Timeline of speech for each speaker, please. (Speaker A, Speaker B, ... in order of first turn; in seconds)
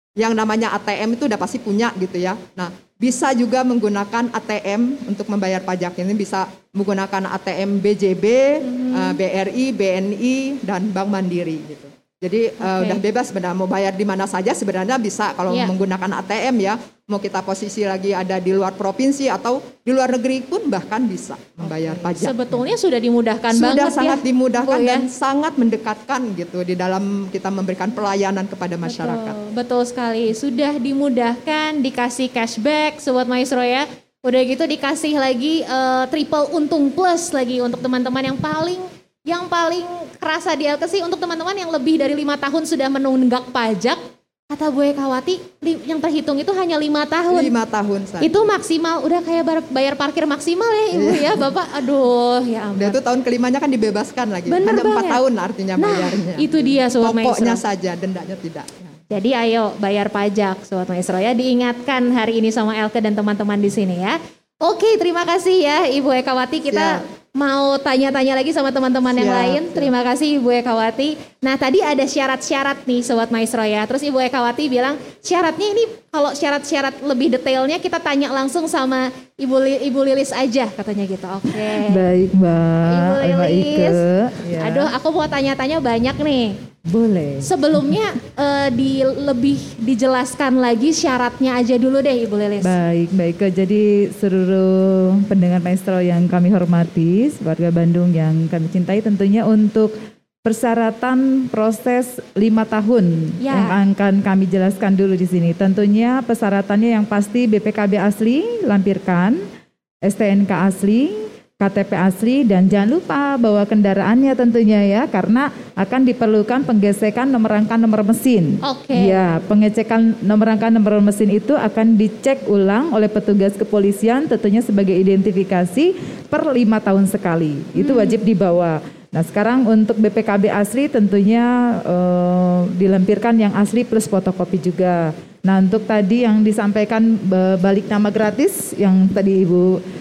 Speaker A: 0.2-22.6, 23.5-29.4, 47.3-48.5, 50.9-51.5, 52.8-59.0, 66.7-67.0, 69.2-69.9
Speaker B: 8.6-9.2, 12.6-13.0, 21.6-25.1, 28.8-47.5, 48.2-53.0, 54.5-55.2, 55.8-57.6, 59.1-82.0, 82.8-84.0, 84.5-86.6, 87.4-92.8, 103.4-103.8, 118.6-119.2, 127.8-128.2
Speaker C: 81.7-84.9, 86.8-88.0, 92.6-109.4, 110.0-139.8